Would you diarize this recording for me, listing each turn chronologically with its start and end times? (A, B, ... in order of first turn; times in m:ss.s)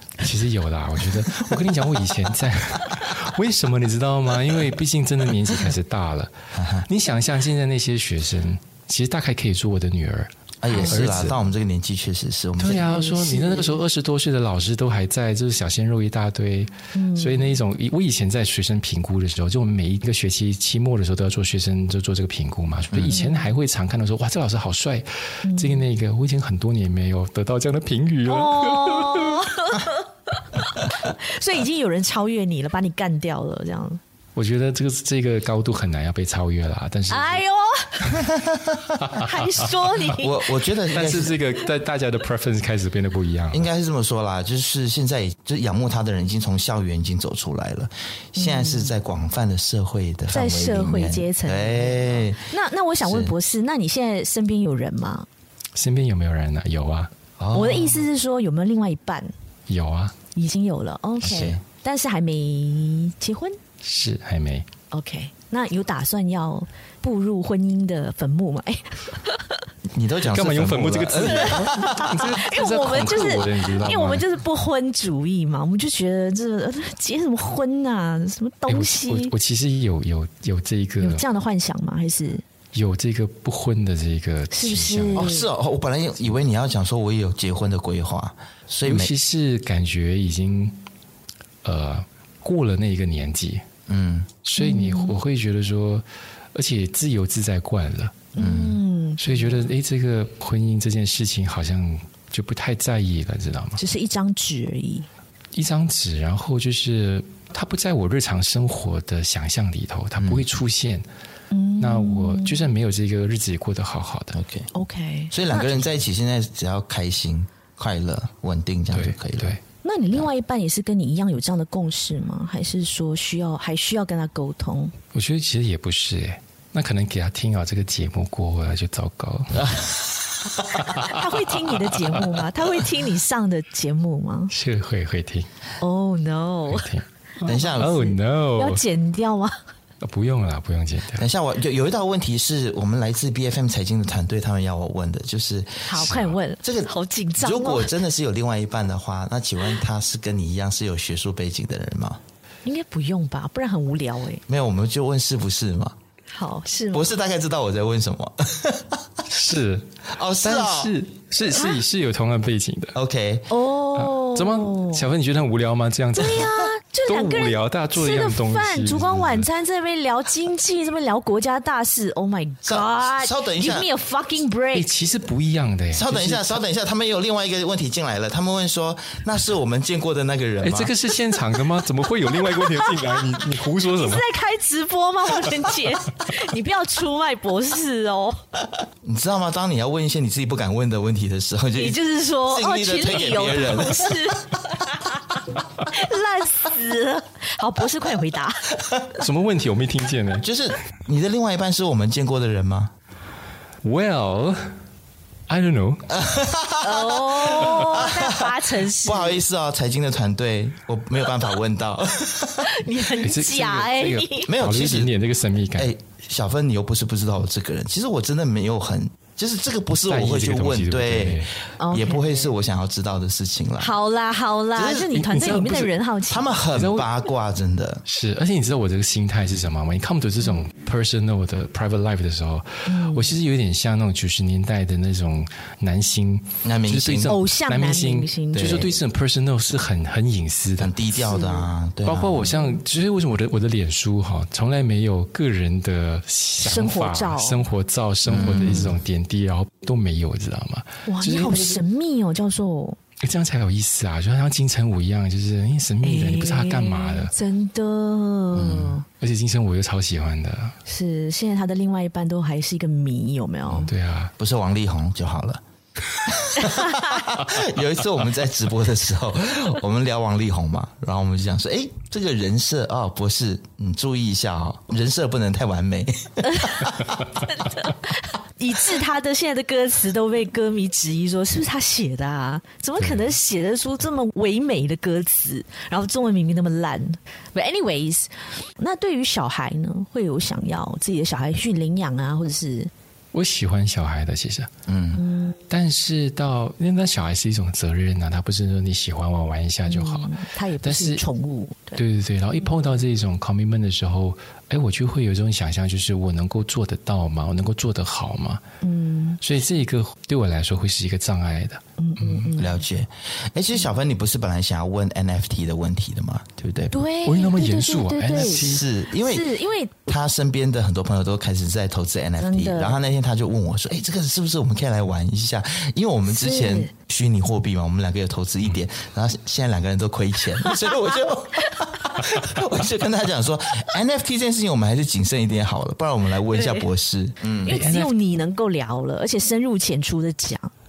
0:00.2-0:11.4 A
0:01.2-0:01.6 B
0:06.5-0:06.9 B
0:10.6-0:12.9 B
0:10.7-0:11.1 C
0:12.6-0:29.5 A
0:12.8-0:13.8 C
0:16.9-0:17.6 C
0:22.9-0:23.2 B
0:23.1-0:23.5 C
0:25.4-0:25.8 C
0:28.3-0:34.0 C
0:34.4-0:37.4 A
0:37.1-0:38.2 C
0:38.2-0:39.0 B
0:39.0-0:39.9 A
0:39.1-0:40.5 C
0:40.2-0:41.4 B
0:40.9-0:43.7 A
0:43.5-0:52.4 B
0:48.4-0:48.9 C
0:50.3-0:55.3 C
0:53.0-0:53.3 B
0:55.7-0:57.1 A
0:57.4-0:58.0 B
0:57.5-0:59.3 C
0:59.7-1:00.1 A
1:00.3-1:03.6 C
1:01.2-1:01.6 B
1:03.8-1:04.7 A
1:04.9-1:09.6 C
1:09.9-1:12.2 B
1:10.2-1:14.3 A
1:11.2-1:19.3 C
1:18.7-1:21.2 A
1:21.0-1:22.4 C
1:22.7-1:25.3 A
1:24.5-1:25.5 C
1:25.1-1:29.1 B
1:28.8-1:30.8 A
1:31.6-1:33.6 A
1:33.9-1:34.3 B
1:34.4-1:38.3 A
1:34.6-1:35.2 C
1:38.3-1:39.5 C
1:38.4-1:38.8 B
1:39.2-1:43.8 A
1:43.8-1:45.1 C
1:45.5-1:51.0 A
1:50.2-1:50.4 B
1:51.5-1:52.7 C
1:51.8-1:54.4 A
1:54.3-1:54.7 B
1:54.7-1:55.8 C
1:55.3-1:59.6 B
1:58.9-1:59.6 A
1:59.8-2:04.9 C
2:05.1-2:09.9 A
2:09.6-2:11.0 B
2:10.9-2:12.4 A
2:11.0-2:14.5 C
2:14.5-2:15.5 A
2:15.8-2:16.9 C
2:16.7-2:18.8 A
2:17.4-2:19.5 C
2:17.4-2:17.9 B
2:20.0-2:21.2 A
2:21.2-2:32.2 B
2:25.9-2:27.9 C
2:26.0-2:26.3 A
2:32.6-2:34.4 C
2:34.5-2:36.0 B
2:36.3-2:37.1 C
2:36.9-2:39.2 B
2:39.3-2:39.9 A
2:40.1-2:40.9 B
2:40.4-2:43.0 A
2:41.5-2:41.8 C
2:42.9-2:43.5 B
2:43.5-2:45.0 C
2:43.9-2:49.5 A
2:46.1-2:54.9 C
2:52.6-2:53.9 B
2:54.7-2:56.6 A
2:55.9-3:00.9 B
3:00.6-3:04.3 A
3:02.4-3:08.4 C
3:09.0-3:14.4 B
3:11.8-3:18.8 C
3:19.1-3:20.4 A
3:20.4-3:22.9 B
3:23.8-3:24.7 A
3:25.5-3:26.1 A
3:26.1-3:32.7 B
3:26.8-3:29.4 C
3:32.6-3:34.5 C
3:33.2-3:35.9 A
3:34.5-3:35.1 B
3:35.7-3:43.9 B
3:40.1-3:41.5 A
3:41.8-3:42.5 C
3:43.8-3:46.5 C
3:44.8-3:45.1 B
3:45.1-3:45.9 A
3:46.3-3:48.0 B
3:46.7-3:47.1 A
3:48.0-4:01.0 A
3:52.8-3:53.3 C
3:56.6-3:57.4 B
3:57.3-3:58.9 C
4:00.8-4:02.5 B
4:01.3-4:01.7 C
4:02.0-4:11.8 A
4:02.4-4:02.8 C
4:06.6-4:07.6 C
4:08.2-4:09.0 B
4:11.0-4:13.0 C
4:13.2-4:17.3 A
4:16.0-4:19.0 C
4:18.5-4:19.0 B
4:19.1-4:20.8 A
4:20.8-4:23.9 C
4:23.8-4:24.3 A
4:24.4-4:37.2 B
4:26.6-4:27.0 C
4:36.4-4:52.9 C
4:43.0-4:43.3 A
4:53.3-4:54.7 A
4:54.9-4:55.2 B
4:55.1-4:55.6 C
4:55.7-5:01.2 A
4:59.8-5:02.0 C
5:02.0-5:08.6 A
5:08.8-5:09.4 C
5:09.4-5:11.8 A
5:12.0-5:12.8 C
5:12.5-5:16.9 B
5:16.9-5:20.0 C
5:17.2-5:18.9 A
5:18.4-5:19.5 B
5:20.1-5:37.8 B
5:22.4-5:23.0 C
5:26.3-5:26.9 C
5:36.5-5:36.8 C
5:37.6-5:40.7 C
5:37.6-5:38.1 A